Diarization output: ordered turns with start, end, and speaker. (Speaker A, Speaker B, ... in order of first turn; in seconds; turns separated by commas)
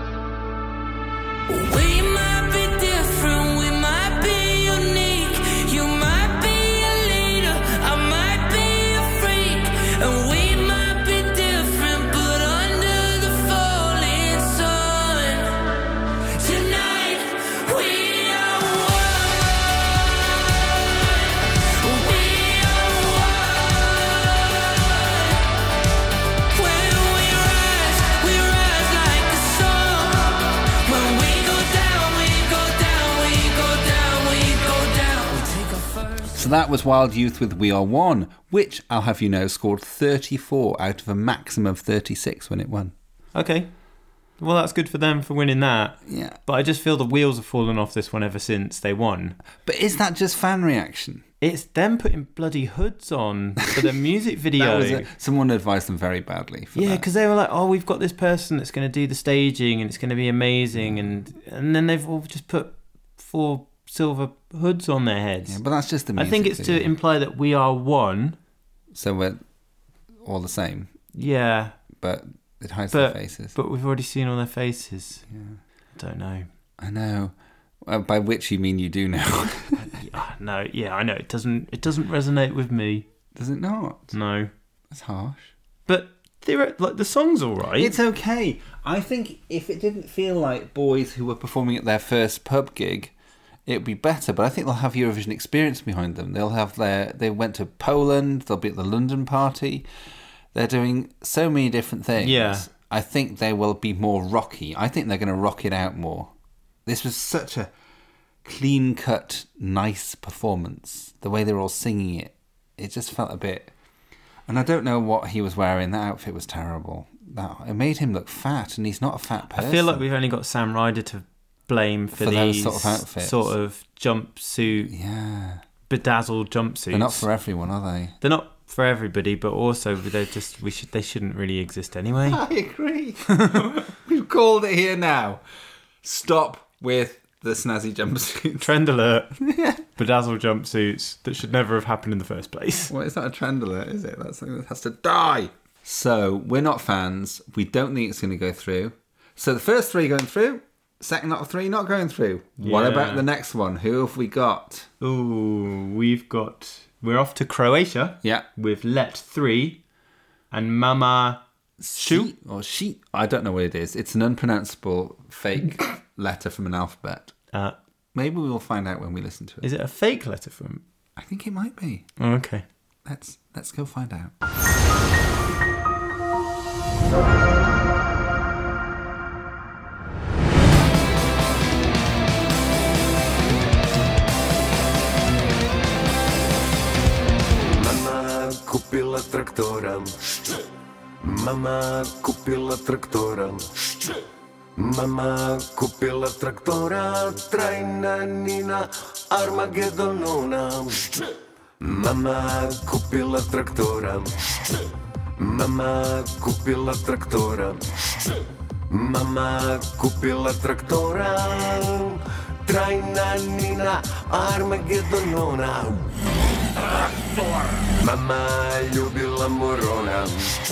Speaker A: 1.5-25.4, Speaker A: 26.5-36.5, Speaker B: 36.3-42.9, Speaker C: 43.3-43.7, Speaker C: 44.4-49.4, Speaker B: 46.0-46.4, Speaker B: 49.6-51.2, Speaker C: 51.4-55.1, Speaker B: 54.5-57.0, Speaker C: 56.7-65.6, Speaker B: 65.5-66.9, Speaker C: 66.1-68.4, Speaker B: 68.9-69.4, Speaker B: 70.2-70.9, Speaker C: 71.1-71.8, Speaker B: 72.0-73.5, Speaker C: 72.9-75.2, Speaker B: 75.3-75.6, Speaker C: 75.9-76.5, Speaker B: 76.8-80.0, Speaker C: 79.8-83.0, Speaker B: 83.3-84.1, Speaker C: 84.1-84.5, Speaker B: 84.9-85.5, Speaker C: 85.9-87.9, Speaker B: 87.8-93.1, Speaker B: 93.7-99.9, Speaker B: 100.5-106.3, Speaker C: 102.2-102.7, Speaker B: 106.8-107.7, Speaker B: 108.4-113.7, Speaker B: 114.5-120.0, Speaker C: 119.5-124.9, Speaker B: 122.1-123.5, Speaker B: 124.8-125.6, Speaker C: 125.9-127.3, Speaker B: 126.9-128.2, Speaker C: 128.2-132.4, Speaker B: 132.2-135.4, Speaker B: 136.0-138.7, Speaker C: 138.6-139.3, Speaker B: 139.4-139.8, Speaker C: 139.9-142.9, Speaker B: 142.9-154.9, Speaker C: 152.6-153.2, Speaker C: 155.0-159.8, Speaker C: 160.5-161.4, Speaker B: 161.8-167.3, Speaker C: 161.9-162.3, Speaker B: 168.1-169.7, Speaker C: 169.6-170.8, Speaker B: 171.2-172.1, Speaker C: 172.2-172.6, Speaker B: 173.0-174.3, Speaker D: 187.9-190.0, Speaker D: 191.3-193.6, Speaker D: 194.8-198.8, Speaker D: 199.3-200.6, Speaker D: 202.2-204.2, Speaker D: 205.4-207.8, Speaker D: 209.0-211.9, Speaker D: 212.7-215.8, Speaker D: 218.1-220.2